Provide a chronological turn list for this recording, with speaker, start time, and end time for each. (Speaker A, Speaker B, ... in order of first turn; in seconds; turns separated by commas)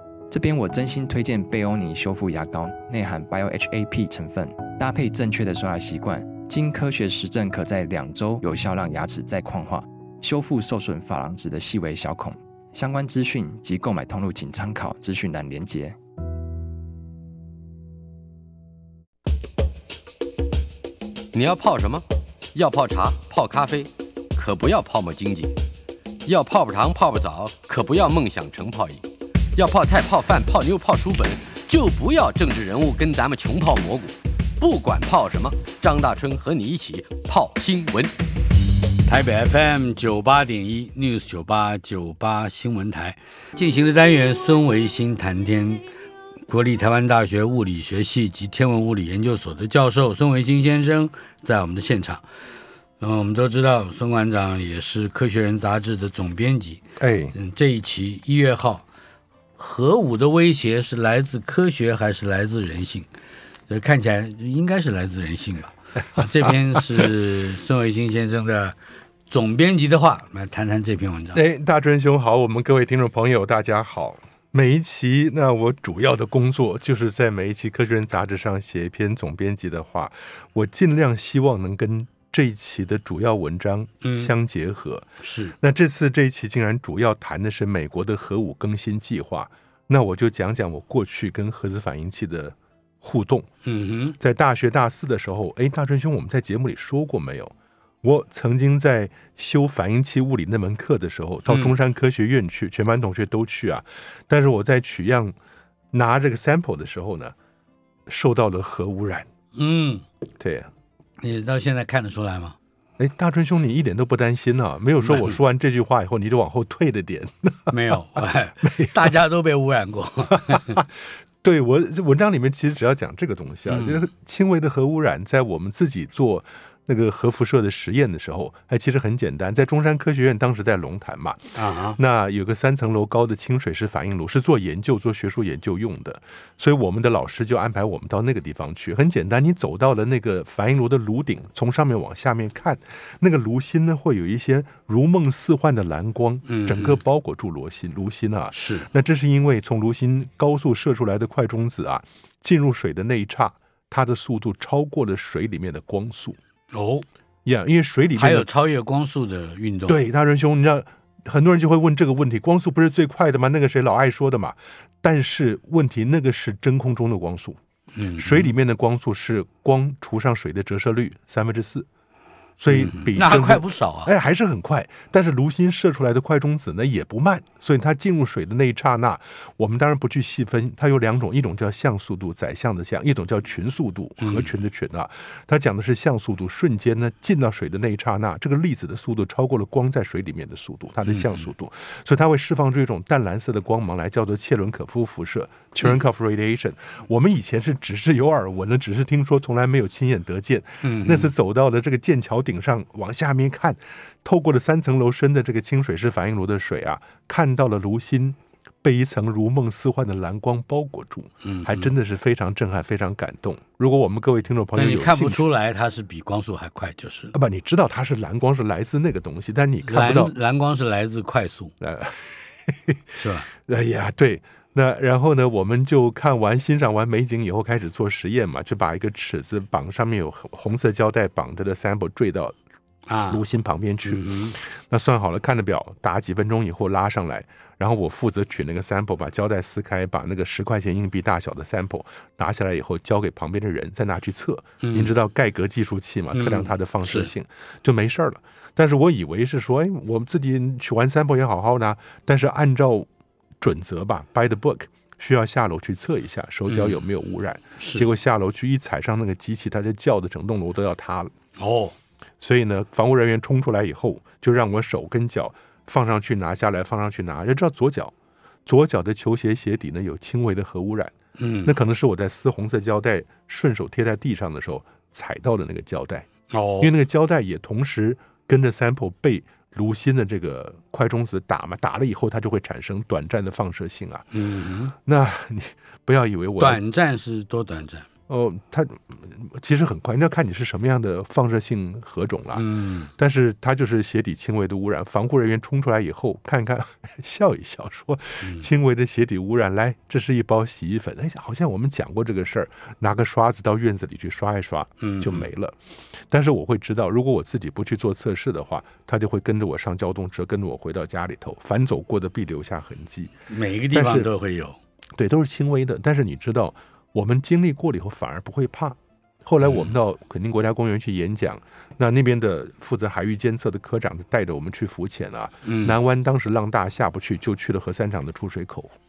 Speaker A: 0.3-16.0, Speaker B: 21.3-25.6, Speaker B: 26.2-29.0, Speaker B: 29.6-38.1, Speaker C: 39.1-45.8, Speaker C: 46.5-52.2, Speaker C: 53.0-58.8, Speaker D: 57.0-57.4, Speaker C: 59.6-63.1, Speaker C: 63.7-68.8, Speaker D: 66.2-67.1, Speaker C: 69.3-71.4, Speaker D: 71.3-85.1, Speaker C: 84.0-84.3, Speaker C: 85.2-85.5, Speaker D: 85.6-93.5, Speaker C: 93.6-94.2, Speaker D: 94.2-105.3, Speaker C: 101.5-101.8, Speaker D: 105.9-107.3, Speaker D: 108.1-109.3, Speaker C: 109.5-110.0, Speaker D: 110.4-110.7, Speaker C: 111.2-112.5, Speaker D: 113.0-119.1, Speaker C: 115.0-115.4, Speaker C: 117.7-120.8, Speaker D: 120.3-120.9, Speaker D: 121.4-156.4, Speaker C: 123.7-124.0, Speaker C: 131.5-132.0, Speaker C: 146.5-147.0, Speaker C: 148.5-148.9, Speaker C: 156.7-157.0, Speaker D: 157.4-158.5, Speaker C: 158.2-160.0, Speaker D: 159.9-167.6, Speaker C: 167.9-168.5, Speaker D: 168.2-171.9, Speaker D: 172.6-215.4, Speaker C: 172.7-174.1, Speaker C: 184.2-184.5, Speaker C: 191.1-191.4, Speaker C: 200.8-201.3, Speaker C: 211.4-211.9, Speaker C: 214.7-217.3, Speaker D: 217.3-220.3, Speaker C: 219.8-221.7, Speaker D: 221.8-223.0, Speaker C: 223.1-223.5, Speaker D: 223.6-232.6, Speaker C: 233.1-233.4, Speaker D: 233.3-253.1, Speaker C: 234.0-234.6, Speaker C: 244.8-245.1, Speaker C: 246.3-247.3, Speaker D: 253.6-261.3, Speaker C: 256.7-257.0, Speaker C: 257.8-258.1, Speaker C: 261.6-261.9, Speaker D: 262.4-268.1, Speaker D: 268.6-276.3, Speaker C: 271.4-271.8, Speaker C: 276.5-276.9, Speaker D: 276.8-284.3, Speaker C: 284.3-284.9, Speaker D: 285.0-286.8, Speaker C: 286.6-288.1, Speaker D: 288.3-305.8, Speaker C: 292.5-293.1, Speaker C: 305.0-305.5, Speaker D: 306.3-313.3, Speaker C: 313.5-314.8, Speaker D: 313.9-314.3, Speaker D: 315.1-328.9, Speaker C: 319.6-319.9, Speaker C: 325.6-326.0